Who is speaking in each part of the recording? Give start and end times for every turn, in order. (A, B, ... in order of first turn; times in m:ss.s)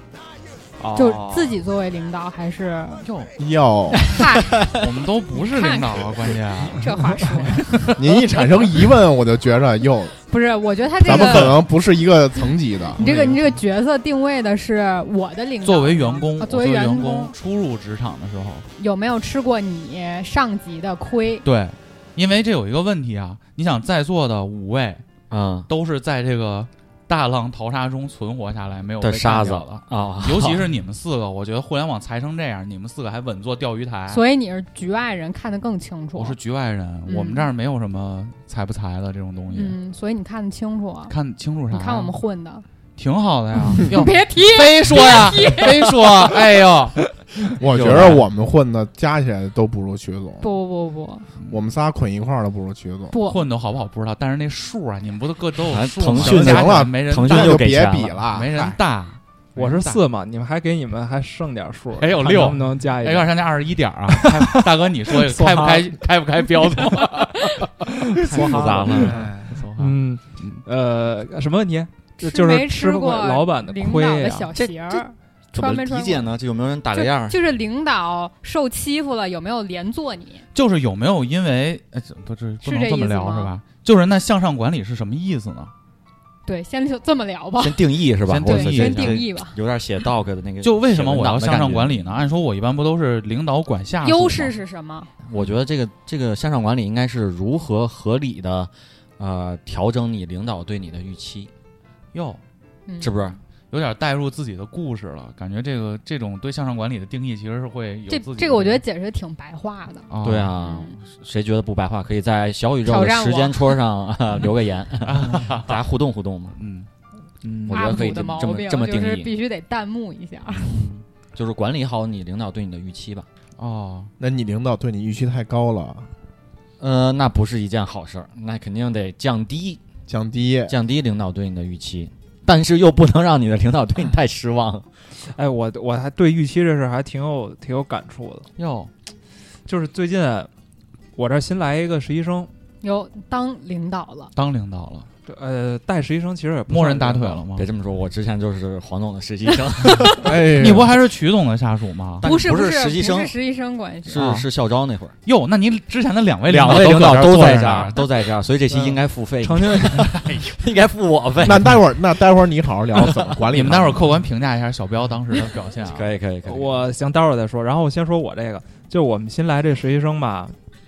0:00.8-0:01.6 A
0:01.0-0:03.0 B
0:03.0-0:03.3 C
0:03.4-0:04.1 D
0:04.0-0:04.7 E
0:04.1-0:04.6 B
0:04.7-0:06.9 C
0:05.4-0:06.0 B
0:06.8-0:07.7 B
0:07.6-0:08.2 C
0:08.0-0:10.1 D
0:10.3-0:11.6 B
0:11.0-0:13.0 D
0:11.1-0:11.6 E
0:13.0-0:17.3 B
0:13.0-0:13.3 E
0:15.6-0:18.7 C
0:18.8-0:21.4 B
0:21.4-0:25.0 C
0:25.3-0:25.7 E
0:25.7-0:34.2 C
0:29.0-0:30.7 E
0:34.1-0:36.4 B
0:36.2-0:39.8 C
0:37.1-0:37.5 B
0:39.5-0:41.1 B
0:41.1-0:42.2 C
0:41.7-0:42.6 B
0:43.0-0:47.0 C
0:43.6-0:46.3 B
0:47.6-0:50.5 D
0:47.7-0:48.2 E
0:50.4-0:51.3 B
0:51.5-0:53.2 D
0:53.1-0:53.4 B
0:53.2-1:00.0 C
0:55.7-0:58.2 E
0:56.2-0:58.8 D
0:59.6-1:03.3 A
1:02.0-1:07.7 C
1:04.1-1:05.9 A
1:07.8-1:14.5 A
1:08.2-1:10.6 C
1:08.3-1:09.2 E
1:12.2-1:16.3 B
1:14.5-1:17.4 E
1:16.9-1:20.4 B
1:20.5-1:25.7 C
1:22.6-1:23.5 B
1:26.5-1:29.6 B
1:27.6-1:32.0 E
1:28.2-1:29.2 C
1:30.6-1:34.5 C
1:34.0-1:35.1 B
1:35.2-1:41.5 E
1:42.1-1:42.4 C
1:42.9-1:43.2 B
1:43.0-1:43.4 E
1:43.7-1:48.8 C
1:48.1-1:50.1 B
1:50.1-1:50.6 C
1:50.2-1:56.6 E
1:50.6-1:51.0 B
1:52.8-1:53.8 B
1:55.0-1:55.8 C
1:56.6-1:56.9 C
1:57.4-1:58.2 A
1:57.4-1:59.3 E
1:57.7-2:00.7 B
2:00.7-2:03.3 E
2:03.6-2:04.1 C
2:04.2-2:06.1 D
2:06.8-2:09.8 E
2:10.1-2:10.7 D
2:10.7-2:14.9 E
2:15.3-2:18.5 A
2:18.6-2:18.9 C
2:19.7-2:20.5 A
2:21.2-2:22.5 A
2:22.8-2:24.3 B
2:24.4-2:25.1 C
2:25.3-2:27.4 A
2:26.7-2:27.7 C
2:27.6-2:30.3 E
2:30.1-2:30.9 D
2:30.5-2:32.3 C
2:32.2-2:33.3 E
2:32.2-2:34.2 B
2:34.1-2:35.1 E
2:34.1-2:34.5 C
2:35.2-2:38.0 C
2:36.5-2:41.9 E
2:38.7-2:40.2 A
2:40.1-2:40.5 C
2:41.4-2:44.0 D
2:43.0-2:44.0 E
2:43.5-2:46.1 C
2:45.8-2:46.9 E
2:46.4-2:50.6 A